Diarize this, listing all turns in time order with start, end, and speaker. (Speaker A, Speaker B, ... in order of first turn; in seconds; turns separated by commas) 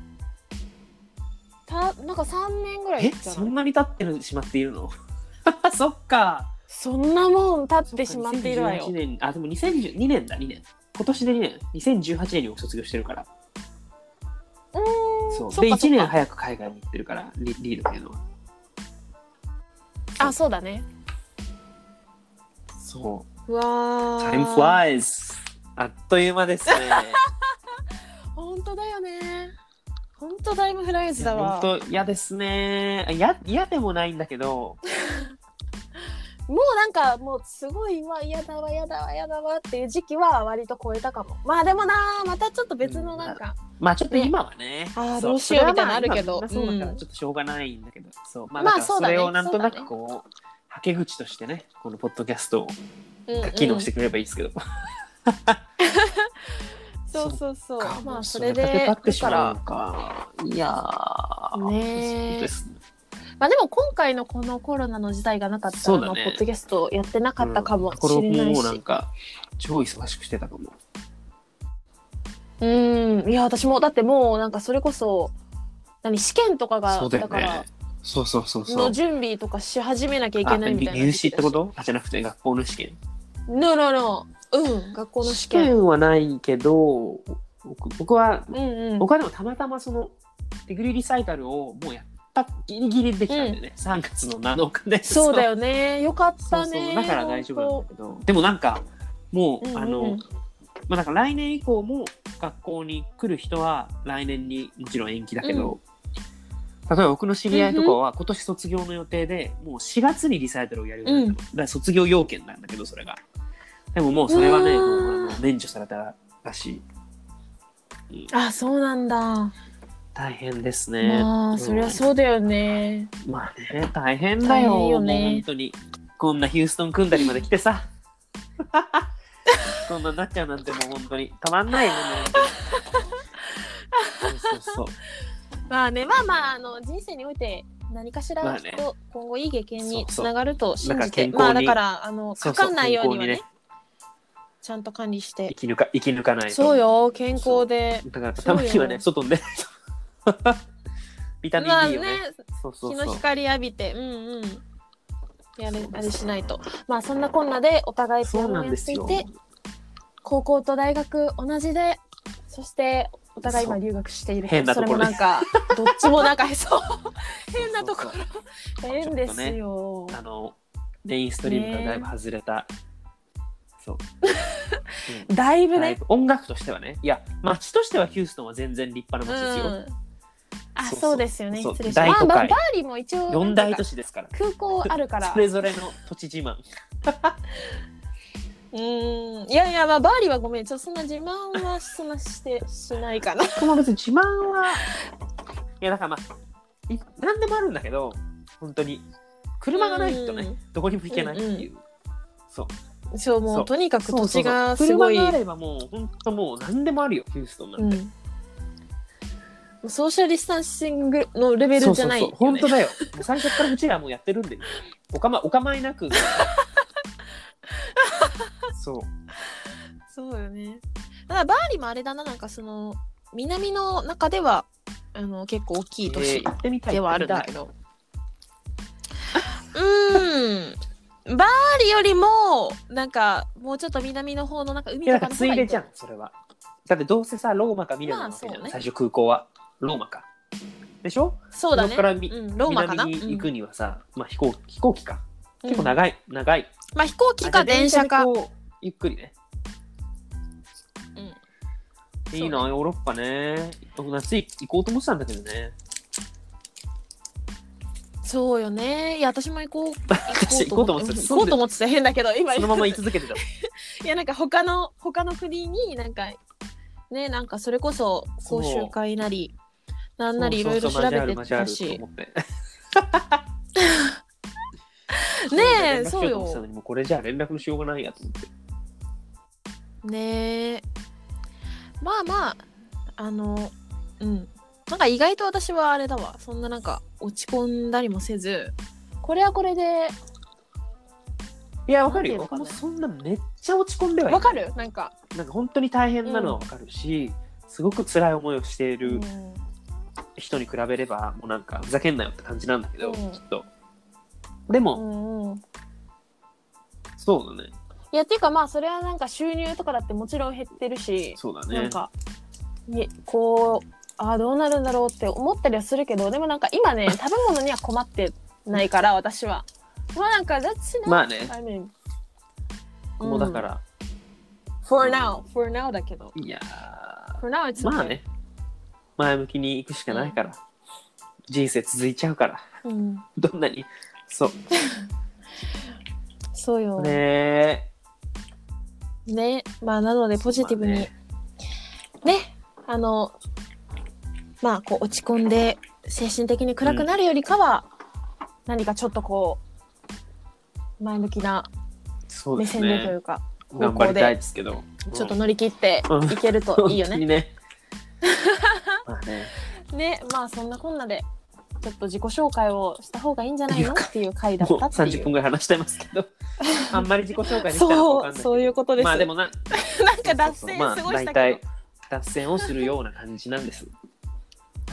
Speaker A: 1.7-3.5, Speaker B: 3.0-4.9, Speaker B: 5.5-6.5, Speaker A: 6.7-8.9, Speaker B: 7.9-13.3, Speaker A: 14.7-16.1, Speaker B: 15.3-18.2, Speaker A: 20.2-20.9, Speaker B: 22.8-23.3, Speaker A: 23.5-24.8, Speaker B: 24.2-27.2, Speaker A: 26.7-27.3, Speaker A: 28.4-29.5, Speaker A: 30.2-31.7, Speaker B: 31.2-34.8, Speaker A: 35.0-35.3, Speaker A: 36.5-44.3, Speaker B: 42.8-52.8, Speaker A: 44.9-47.0, Speaker A: 48.6-49.9, Speaker A: 53.3-53.9, Speaker B: 53.4-54.6, Speaker B: 55.2-55.6, Speaker A: 55.8-59.6, Speaker B: 57.1-62.7, Speaker A: 61.5-62.5, Speaker A: 63.4-68.8, Speaker B: 65.7-66.4, Speaker B: 67.4-70.7, Speaker A: 72.6-75.3, Speaker A: 76.0-77.7, Speaker B: 76.9-79.0, Speaker A: 78.7-81.6, Speaker B: 80.4-83.0, Speaker A: 83.5-85.7, Speaker B: 85.2-90.1, Speaker A: 88.5-89.1, Speaker B: 90.7-95.5, Speaker A: 93.3-93.6, Speaker A: 95.0-97.8, Speaker B: 96.4-100.2, Speaker A: 99.6-100.2, Speaker B: 100.9-105.8, Speaker A: 105.4-105.8, Speaker B: 106.9-113.2, Speaker A: 107.5-108.0, Speaker A: 111.0-111.4, Speaker B: 113.9-116.8, Speaker A: 114.3-115.4, Speaker A: 118.3-119.5, Speaker B: 120.1-122.0, Speaker A: 121.0-123.1, Speaker B: 123.2-127.8, Speaker A: 124.4-125.4, Speaker B: 128.6-129.1, Speaker B: 129.8-132.5, Speaker A: 132.3-133.1, Speaker A: 133.9-134.8, Speaker B: 134.2-134.9, Speaker A: 135.7-143.4, Speaker B: 138.4-138.8, Speaker B: 139.8-140.3, Speaker B: 140.8-141.8, Speaker B: 142.4-143.4, Speaker A: 144.6-145.5, Speaker B: 145.5-146.8, Speaker A: 146.5-149.0, Speaker B: 147.3-149.7, Speaker B: 150.2-150.6, Speaker B: 151.4-153.2, Speaker A: 151.6-154.6, Speaker A: 155.6-159.3, Speaker B: 155.7-156.2, Speaker B: 158.2-159.3, Speaker A: 160.2-170.2, Speaker B: 163.4-163.8, Speaker B: 164.4-166.3, Speaker B: 167.6-168.2, Speaker B: 168.9-169.6, Speaker B: 170.1-172.7, Speaker A: 171.4-172.1, Speaker A: 174.2-176.0, Speaker B: 175.1-179.8, Speaker A: 179.2-179.9, Speaker A: 180.8-185.4, Speaker B: 180.8-182.6, Speaker B: 183.3-184.3, Speaker B: 184.8-187.4, Speaker A: 188.7-193.7, Speaker B: 193.6-194.9, Speaker B: 195.8-196.2, Speaker B: 196.9-199.1, Speaker B: 199.6-201.8, Speaker A: 199.7-201.7, Speaker A: 203.1-205.3, Speaker B: 203.5-208.0, Speaker A: 207.8-208.1, Speaker A: 209.8-213.6, Speaker B: 211.8-216.5, Speaker A: 216.1-216.7, Speaker A: 217.8-218.5, Speaker B: 218.7-219.1, Speaker A: 220.1-227.7, Speaker B: 226.0-227.5, Speaker A: 229.6-235.8, Speaker B: 235.1-236.3, Speaker B: 236.8-240.3, Speaker A: 238.0-238.8, Speaker B: 241.0-246.7, Speaker A: 241.5-243.5, Speaker A: 245.6-246.0, Speaker A: 246.9-248.3, Speaker B: 247.4-249.3, Speaker B: 252.3-255.7, Speaker A: 252.3-252.7, Speaker A: 258.2-266.4, Speaker B: 260.1-261.6, Speaker B: 262.5-263.4, Speaker A: 267.1-269.5, Speaker B: 268.4-268.9, Speaker A: 270.2-272.0, Speaker B: 270.4-272.4, Speaker B: 272.9-273.4, Speaker A: 273.8-274.2, Speaker A: 275.1-276.6, Speaker B: 275.5-278.5, Speaker A: 280.0-280.8, Speaker A: 282.0-282.6, Speaker A: 283.2-290.1, Speaker B: 291.9-294.6, Speaker A: 292.1-292.8, Speaker A: 294.3-295.1, Speaker B: 295.3-299.2, Speaker A: 296.2-296.6, Speaker A: 299.0-299.6, Speaker B: 300.4-303.7, Speaker A: 303.0-303.4, Speaker B: 304.7-305.0, Speaker A: 304.9-305.6, Speaker B: 307.2-307.7, Speaker A: 308.1-312.1, Speaker B: 311.4-312.0, Speaker A: 312.9-321.9, Speaker B: 321.1-321.5, Speaker A: 323.2-323.7, Speaker B: 323.2-323.8, Speaker A: 324.8-326.3, Speaker B: 325.0-325.4, Speaker B: 326.3-328.2, Speaker A: 327.4-328.1, Speaker B: 329.2-330.6, Speaker A: 330.1-330.4, Speaker B: 331.5-332.6, Speaker A: 332.8-333.2, Speaker B: 333.4-334.6, Speaker A: 336.5-337.2, Speaker B: 337.0-337.9, Speaker A: 339.3-341.1, Speaker B: 340.4-341.1, Speaker A: 342.2-343.4, Speaker A: 344.6-347.9, Speaker B: 346.8-347.1, Speaker A: 348.6-349.6, Speaker A: 351.0-351.7, Speaker B: 352.3-353.1, Speaker A: 352.6-354.3, Speaker B: 353.7-355.4, Speaker A: 355.1-357.2, Speaker B: 356.1-357.5, Speaker A: 358.2-359.0, Speaker B: 359.1-359.5, Speaker A: 359.9-361.2, Speaker A: 361.8-365.3, Speaker B: 363.7-366.3, Speaker A: 366.6-371.6, Speaker B: 366.9-373.9, Speaker A: 372.6-372.9